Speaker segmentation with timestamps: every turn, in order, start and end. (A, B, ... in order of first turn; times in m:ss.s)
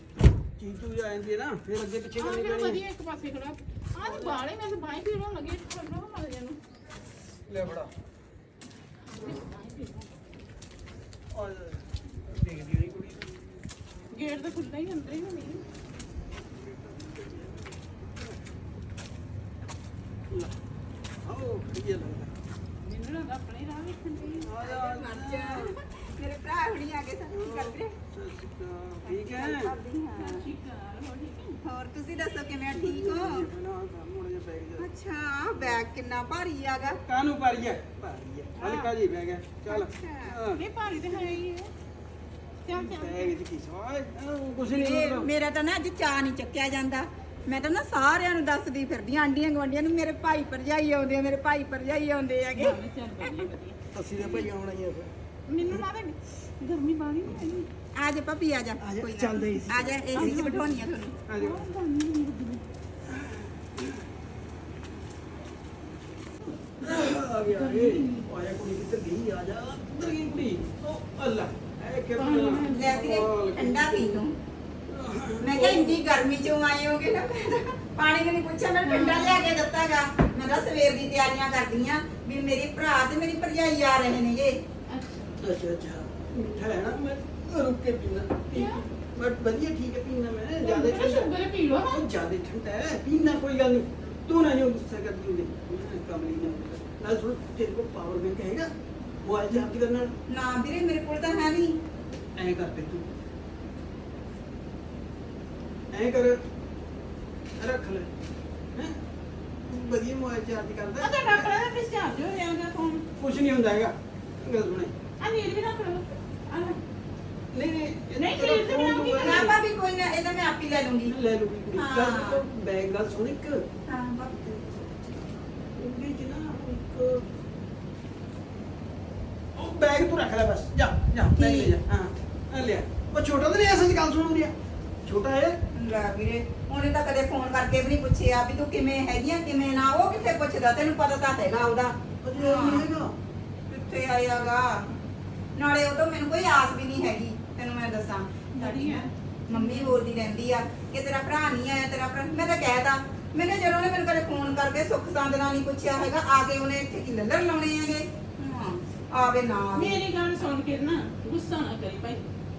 0:00.6-0:02.8 A
0:02.2-0:06.6 B
0:04.0-0:04.4 A
0:07.5-0:07.9 A
0:09.1-0:10.1 B
0:11.3-0:13.3 A
0:14.1-0:15.6 B
0:16.5-0:18.3 A
0:21.2-0:22.3 A
0:22.8-0:24.4 B
0:24.2-0:28.0 C
0:24.3-0:25.7 A
0:27.3-0:29.7 A
0:29.0-0:30.5 C
0:30.2-0:31.6 B
0:31.6-0:33.5 C
0:32.7-0:34.9 A
0:34.8-0:37.0 C
0:37.0-0:41.4 A
0:38.6-0:38.9 B
0:39.7-0:40.4 C
0:40.5-0:41.7 B
0:42.6-0:43.4 B
0:42.8-0:45.3 A
0:44.7-0:53.5 C
0:52.5-0:53.8 B
0:53.9-0:55.1 A
0:55.5-0:57.7 B
0:58.0-1:01.1 C
0:58.8-1:00.2 A
1:00.1-1:02.6 B
1:01.2-1:01.7 A
1:03.0-1:04.0 A
1:06.7-1:14.2 A
1:07.4-1:08.2 B
1:12.1-1:12.9 B
1:12.6-1:14.4 C
1:14.9-1:16.0 A
1:15.4-1:24.6 C
1:18.8-1:19.5 B
1:24.9-1:25.3 B
1:25.4-1:38.7 A
1:28.5-1:28.8 B
1:30.6-1:32.0 B
1:39.2-1:40.1 A
1:40.3-1:41.8 C
1:42.4-1:43.1 A
1:45.9-1:46.4 A
1:47.6-1:48.1 A
1:49.6-1:51.6 A
1:51.0-1:53.0 B
1:53.2-1:54.9 A
1:55.2-1:56.8 B
1:57.5-1:59.4 A
1:58.2-1:59.6 B
1:59.2-2:01.1 C
2:01.1-2:03.6 A
2:01.7-2:02.4 C
2:03.9-2:04.8 C
2:05.8-2:07.2 A
2:09.5-2:15.6 A
2:11.3-2:11.7 C
2:15.7-2:22.9 C
2:22.2-2:23.1 A
2:23.7-2:24.8 C
2:25.6-2:40.0 C
2:28.5-2:30.0 B
2:39.7-2:42.3 B